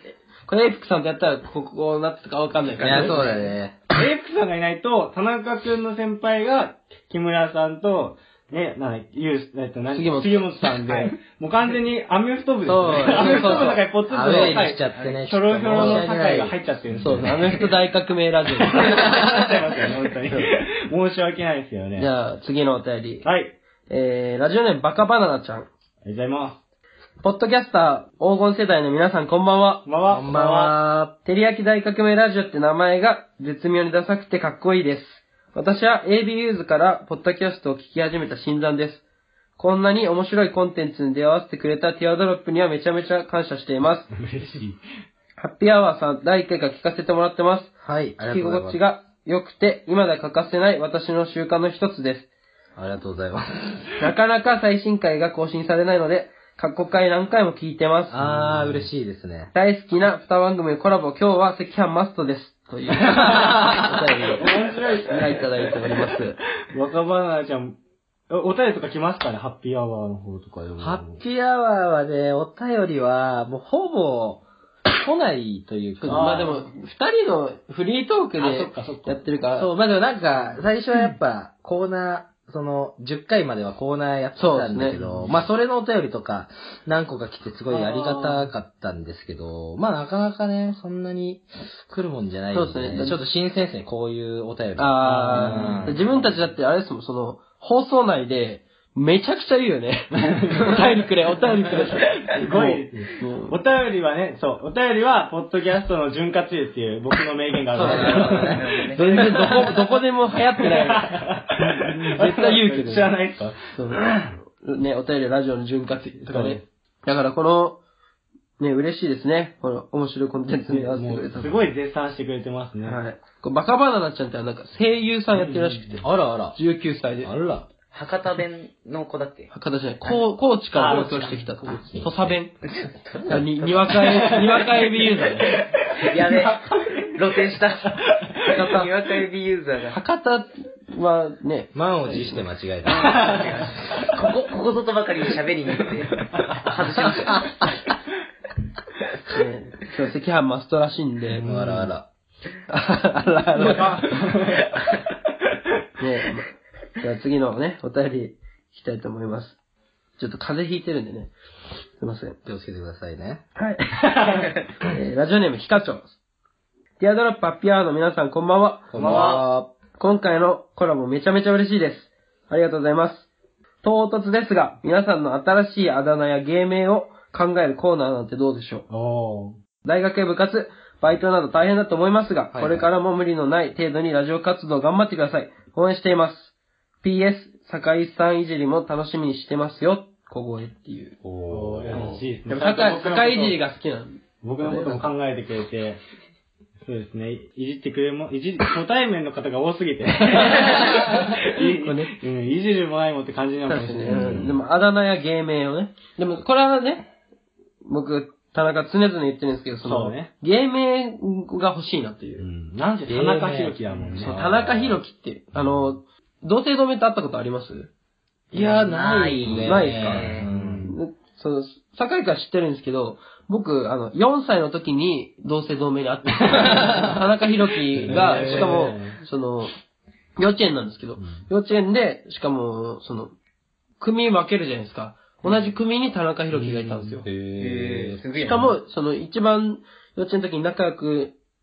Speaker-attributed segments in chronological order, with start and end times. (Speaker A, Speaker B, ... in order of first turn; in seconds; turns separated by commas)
Speaker A: 0.5-3.4, Speaker B: 2.8-3.8, Speaker C: 3.9-17.7, Speaker A: 9.9-11.1, Speaker A: 12.6-13.8, Speaker D: 13.2-13.7, Speaker B: 13.3-16.1, Speaker D: 14.9-15.2, Speaker A: 15.7-19.1, Speaker B: 16.9-17.4, Speaker C: 18.7-22.1, Speaker B: 18.9-19.4, Speaker A: 22.0-23.3, Speaker C: 23.2-23.6, Speaker A: 23.9-25.7, Speaker C: 26.0-26.6, Speaker A: 27.2-29.9, Speaker C: 29.9-30.8, Speaker B: 30.1-31.1, Speaker A: 31.2-39.0, Speaker A: 39.6-44.1, Speaker C: 44.1-44.8, Speaker A: 45.4-52.3, Speaker B: 47.8-48.8, Speaker B: 52.8-53.9, Speaker A: 54.0-58.2, Speaker B: 58.1-59.5, Speaker C: 58.2-58.9, Speaker A: 59.5-66.4, Speaker B: 63.0-64.4, Speaker C: 64.4-65.8, Speaker C: 66.7-67.8, Speaker C: 68.3-71.2, Speaker B: 70.8-76.5, Speaker A: 76.0-79.7, Speaker C: 76.1-76.6, Speaker C: 78.4-79.2, Speaker B: 79.6-96.1, Speaker A: 84.4-85.0, Speaker C: 84.9-85.4, Speaker C: 87.7-88.5, Speaker A: 92.5-93.2, Speaker A: 94.8-103.6, Speaker C: 95.0-96.0, Speaker C: 100.2-100.9, Speaker C: 101.7-109.6, Speaker D: 107.7-109.7, Speaker B: 107.8-108.6, Speaker A: 108.9-113.1, Speaker C: 110.7-114.4, Speaker A: 113.7-117.8, Speaker C: 116.2-116.6, Speaker A: 118.6-121.7, Speaker C: 120.7-123.0, Speaker A: 122.8-127.3, Speaker C: 125.3-126.0, Speaker B: 126.0-126.6, Speaker B: 127.2-127.7, Speaker D: 127.9-129.5, Speaker A: 129.5-132.6, Speaker C: 130.8-131.6, Speaker B: 131.9-132.4, Speaker D: 132.6-134.5, Speaker A: 133.3-135.6, Speaker C: 134.1-134.9, Speaker C: 135.5-136.6, Speaker D: 135.9-140.0, Speaker A: 138.5-138.9, Speaker A: 139.9-142.4, Speaker B: 141.8-143.7, Speaker D: 143.0-147.6, Speaker C: 143.0-143.5, Speaker C: 146.3-146.8, Speaker A: 149.2-151.5, Speaker C: 151.4-151.9, Speaker B: 151.4-152.1, Speaker A: 152.7-154.3, Speaker C: 153.6-154.7, Speaker A: 156.0-159.6, Speaker A: 160.2-161.3, Speaker A: 162.0-162.4, Speaker B: 162.4-163.4, Speaker A: 163.6-166.1, Speaker A: 167.0-169.3, Speaker B: 168.9-169.7, Speaker D: 168.9-169.4, Speaker C: 169.0-169.3, Speaker A: 170.0-173.3, Speaker A: 173.8-178.9, Speaker C: 178.9-179.6, Speaker A: 179.8-186.5, Speaker B: 182.5-182.9, Speaker A: 187.0-191.2, Speaker B: 191.2-192.2, Speaker C: 191.5-193.6, Speaker A: 191.9-195.1, Speaker C: 194.4-196.0, Speaker C: 196.8-204.6, Speaker A: 200.3-202.2, Speaker A: 203.7-207.1, Speaker B: 204.1-204.6, Speaker A: 207.8-212.5, Speaker C: 209.8-210.3, Speaker C: 212.4-214.4, Speaker B: 213.1-215.0, Speaker A: 214.1-217.9, Speaker D: 218.5-220.5, Speaker B: 218.5-220.9, Speaker A: 219.6-220.3, Speaker C: 220.3-221.0, Speaker A: 220.8-229.7, Speaker C: 226.4-227.0, Speaker B: 226.5-227.2, Speaker B: 228.0-228.9, Speaker C: 228.0-229.2, Speaker A: 230.4-233.3, Speaker A: 234.0-237.2, Speaker C: 236.5-237.2, Speaker B: 237.2-238.7, Speaker D: 237.6-238.7, Speaker A: 238.4-241.4